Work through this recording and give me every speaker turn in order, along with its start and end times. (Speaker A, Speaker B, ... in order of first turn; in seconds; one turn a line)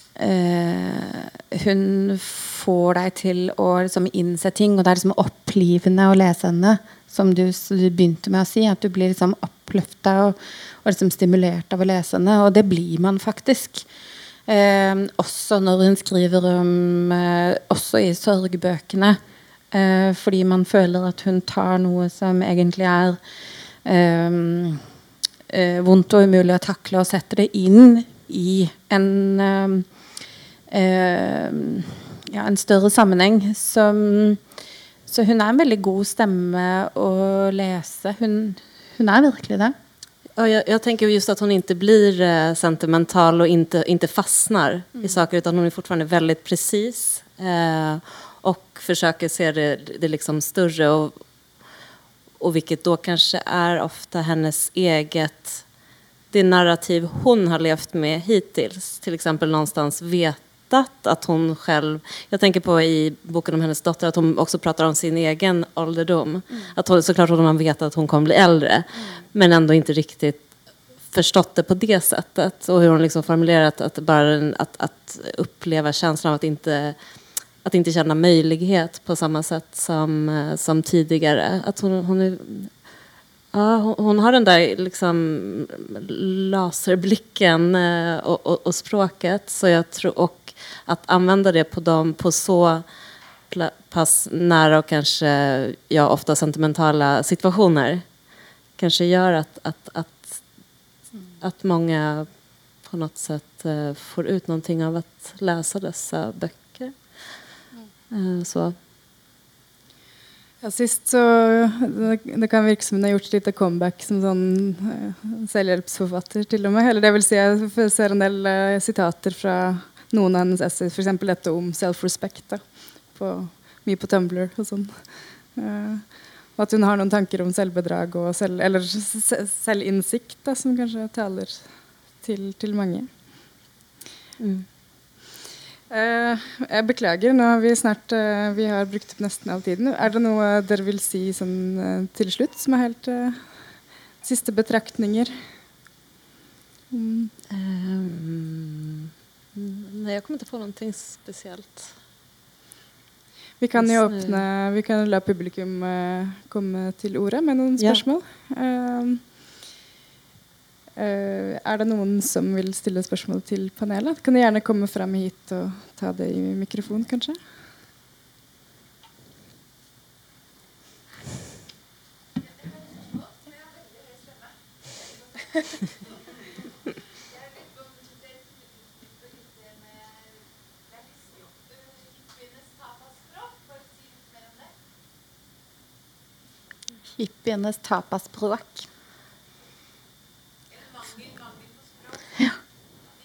Speaker A: 0.2-13.8
Speaker A: 14.5-19.2
Speaker A: 19.7-23.2
Speaker A: 23.8-24.8
Speaker A: 25.5-29.9
Speaker A: 30.7-34.4
Speaker A: 35.1-39.7
Speaker B: 40.4-51.1
Speaker B: 52.4-55.6
Speaker B: 56.3-70.4
Speaker B: 71.1-77.0
Speaker B: 77.6-82.7
Speaker B: 83.5-92.8
Speaker B: 93.5-98.0
Speaker B: 98.8-100.4
Speaker B: 101.4-102.3
Speaker B: 102.8-106.9
Speaker B: 108.1-108.7
Speaker C: 110.6-131.6
Speaker C: 132.2-133.1
Speaker B: 134.4-134.7
Speaker C: 135.9-143.4
Speaker C: 144.2-145.4
Speaker C: 146.9-147.3
Speaker B: 147.5-151.9
Speaker C: 153.6-159.2
Speaker B: 153.8-154.4
Speaker C: 161.0-167.4
Speaker A: 187.2-188.9